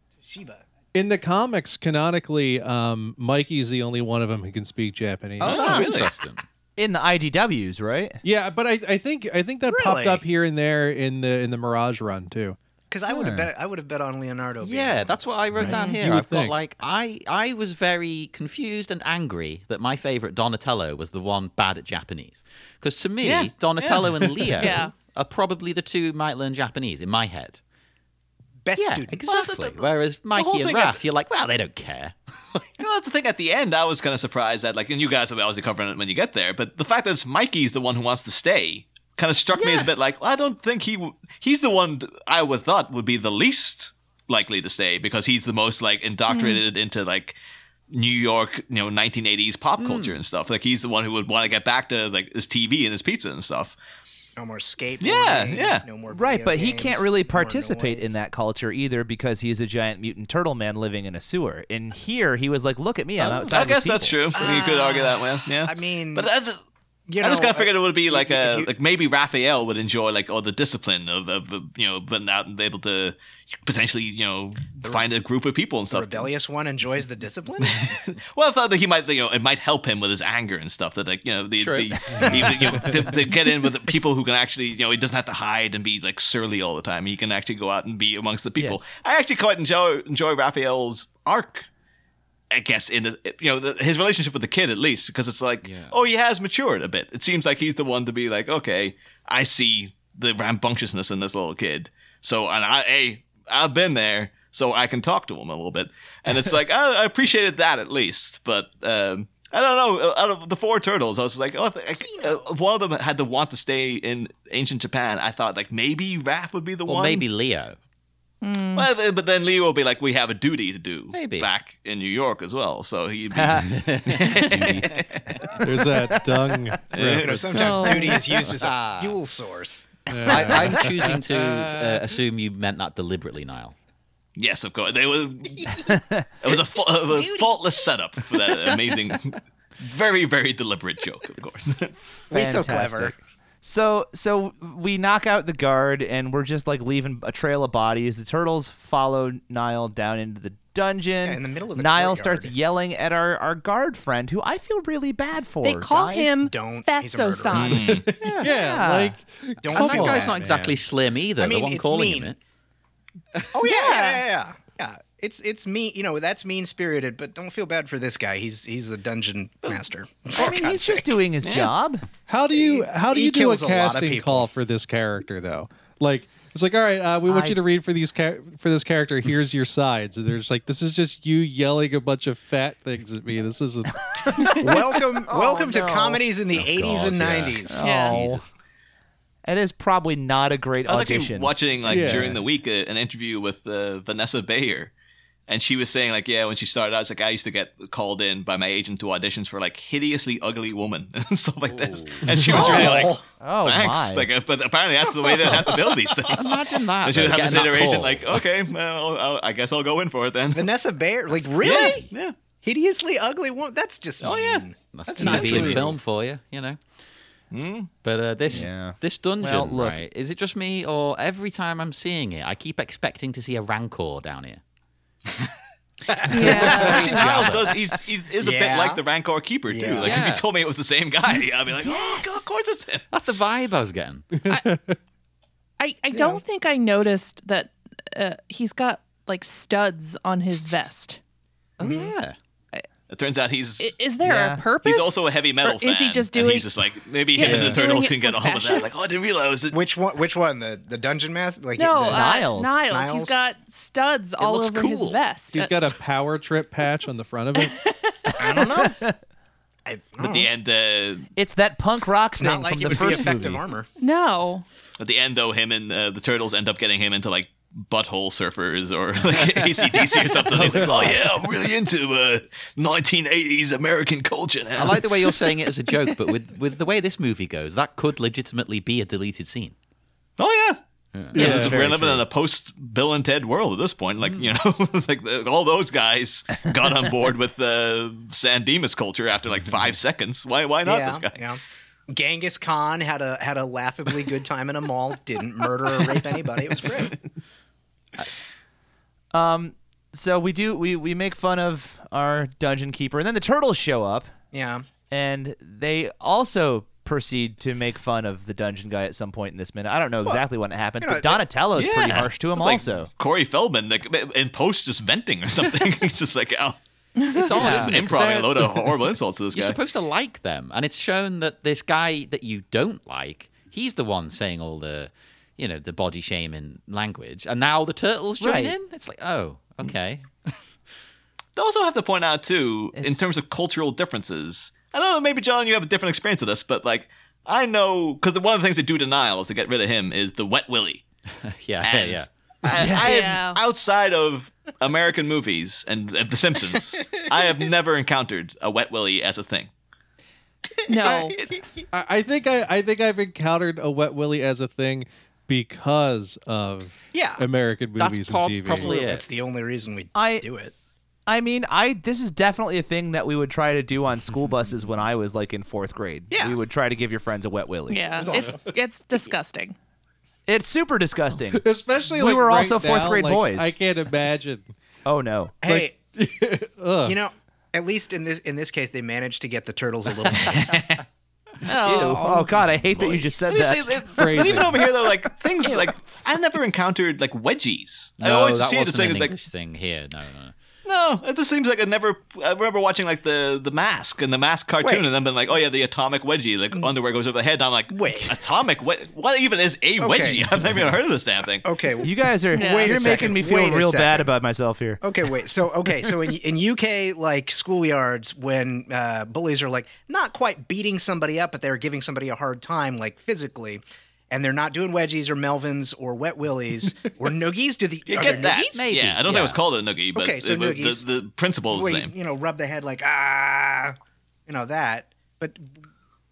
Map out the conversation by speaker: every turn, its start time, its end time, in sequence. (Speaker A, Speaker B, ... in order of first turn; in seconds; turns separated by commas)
Speaker A: 0.2-0.6, Speaker B: 0.9-5.9, Speaker C: 5.4-6.4, Speaker D: 5.4-6.1, Speaker E: 6.8-8.2, Speaker B: 8.2-12.6, Speaker A: 9.7-10.2, Speaker A: 12.9-15.2, Speaker E: 13.1-13.5, Speaker C: 14.6-27.6, Speaker B: 15.5-16.6, Speaker F: 15.6-16.0, Speaker D: 23.8-24.2, Speaker F: 24.6-24.9, Speaker A: 28.6-29.6, Speaker C: 28.8-32.1, Speaker D: 30.3-31.0, Speaker D: 32.8-47.4, Speaker F: 39.6-39.9, Speaker F: 46.3-46.6, Speaker D: 47.9-53.8, Speaker C: 49.8-50.2, Speaker A: 54.4-58.2, Speaker D: 55.0-55.8, Speaker E: 56.1-64.2, Speaker D: 63.2-66.6, Speaker F: 64.3-65.2, Speaker A: 65.6-66.3, Speaker A: 67.1-68.7, Speaker D: 67.2-76.3, Speaker A: 75.9-78.0, Speaker D: 77.6-91.7, Speaker C: 81.6-82.0, Speaker D: 92.5-117.2, Speaker C: 95.6-96.0, Speaker A: 112.0-112.5, Speaker C: 116.9-117.8, Speaker F: 118.4-118.9, Speaker D: 118.7-124.8, Speaker C: 121.1-121.5, Speaker E: 123.3-125.0, Speaker C: 123.6-125.5, Speaker B: 125.6-127.5, Speaker E: 125.6-126.6, Speaker D: 126.9-127.8, Speaker A: 127.1-130.6, Speaker F: 127.5-128.2, Speaker C: 128.6-129.2, Speaker B: 130.1-132.0, Speaker C: 130.3-133.7, Speaker D: 134.3-135.8, Speaker E: 135.8-136.3, Speaker D: 136.4-141.9, Speaker A: 137.2-137.5, Speaker E: 142.3-156.3, Speaker A: 142.3-143.1, Speaker A: 151.2-152.5, Speaker F: 155.6-157.8, Speaker A: 156.3-158.5, Speaker D: 157.5-158.1, Speaker B: 157.9-160.8, Speaker E: 158.2-159.2, Speaker A: 159.6-160.4, Speaker C: 159.7-162.4, Speaker A: 161.4-162.3, Speaker A: 163.5-171.1, Speaker F: 163.6-164.2, Speaker E: 170.3-172.1, Speaker D: 171.4-171.7, Speaker B: 172.3-184.5, Speaker A: 172.5-174.5, Speaker E: 177.2-177.6, Speaker E: 184.5-186.2, Speaker A: 184.6-187.8, Speaker C: 186.5-188.5, Speaker E: 187.7-188.4, Speaker F: 187.8-188.2, Speaker E: 189.4-192.3, Speaker D: 190.9-194.9, Speaker B: 191.8-192.4, Speaker D: 195.5-210.7, Speaker C: 201.7-202.3, Speaker B: 202.2-202.8, Speaker A: 202.4-203.2, Speaker E: 203.4-204.3, Speaker C: 206.3-208.4, Speaker A: 210.5-212.1, Speaker C: 211.4-212.1, Speaker D: 211.6-212.3, Speaker A: 212.6-215.9, Speaker D: 214.2-214.6, Speaker C: 214.9-216.8, Speaker B: 215.1-215.8, Speaker D: 217.5-217.9, Speaker C: 218.0-224.6, Speaker E: 218.5-220.0, Speaker A: 226.2-226.9, Speaker F: 226.3-227.3, Speaker E: 226.3-228.0, Speaker D: 226.4-233.1, Speaker A: 228.4-229.0, Speaker A: 229.7-230.2, Speaker C: 230.0-230.4, Speaker E: 231.8-232.5, Speaker C: 233.1-234.3, Speaker B: 234.4-234.9, Speaker F: 235.8-241.2, Speaker A: 236.1-236.4, Speaker C: 241.8-242.3, Speaker A: 241.8-242.1, Speaker D: 243.1-244.0, Speaker F: 243.8-248.9, Speaker E: 244.2-244.6, Speaker D: 244.8-249.8, Speaker B: 247.4-247.8, Speaker A: 249.7-252.2, Speaker F: 251.8-255.9, Speaker E: 252.1-252.8, Speaker A: 252.8-253.4, Speaker C: 254.4-255.2, Speaker B: 255.5-257.8, Speaker F: 257.6-258.4, Speaker A: 258.4-259.0, Speaker E: 258.8-259.1, Speaker A: 259.9-260.5, Speaker D: 260.2-261.3, Speaker E: 261.4-263.6, Speaker A: 262.4-263.9, Speaker F: 264.0-264.6, Speaker D: 265.0-275.1, Speaker C: 269.3-270.0, Speaker C: 270.6-271.2, Speaker B: 270.6-271.0, Speaker C: 274.8-279.7, Speaker D: 280.4-280.8, Speaker B: 281.3-281.8, Speaker E: 281.3-282.2, Speaker D: 281.4-291.4, Speaker C: 284.2-284.5, Speaker A: 290.8-297.1, Speaker E: 299.3-304.3, Speaker A: 304.5-304.9, Speaker E: 305.1-313.1, Speaker A: 311.0-311.4, Speaker D: 311.7-316.8, Speaker F: 317.2-317.5, Speaker C: 317.3-318.9, Speaker D: 317.5-319.8, Speaker E: 317.6-317.9, Speaker C: 319.5-330.5, Speaker E: 328.4-328.7, Speaker D: 331.6-341.0, Speaker C: 341.4-342.3, Speaker D: 341.8-349.7, Speaker E: 342.7-343.3, Speaker F: 343.0-343.6, Speaker F: 350.9-351.4, Speaker B: 351.9-359.0, Speaker A: 357.1-357.4, Speaker C: 358.0-359.2, Speaker A: 358.7-360.7, Speaker E: 360.1-360.4, Speaker E: 361.3-368.2, Speaker A: 366.3-366.6, Speaker F: 367.9-369.7, Speaker A: 368.2-368.8, Speaker E: 370.5-373.7, Speaker B: 371.5-374.7, Speaker E: 375.1-375.6, Speaker A: 375.6-376.0, Speaker B: 375.6-377.2, Speaker A: 377.0-380.9, Speaker D: 380.4-381.0, Speaker F: 381.6-382.5, Speaker E: 381.7-384.7, Speaker D: 383.0-389.3, Speaker B: 384.1-384.9, Speaker F: 385.6-385.9, Speaker C: 388.2-390.5, Speaker D: 390.8-401.7, Speaker A: 397.9-398.4, Speaker A: 400.0-401.0, Speaker A: 401.6-404.3, Speaker E: 402.0-405.0, Speaker F: 402.5-403.0, Speaker A: 405.0-418.9, Speaker D: 418.1-422.1, Speaker C: 418.2-419.6, Speaker A: 420.1-421.0, Speaker A: 421.7-423.9, Speaker A: 424.5-425.7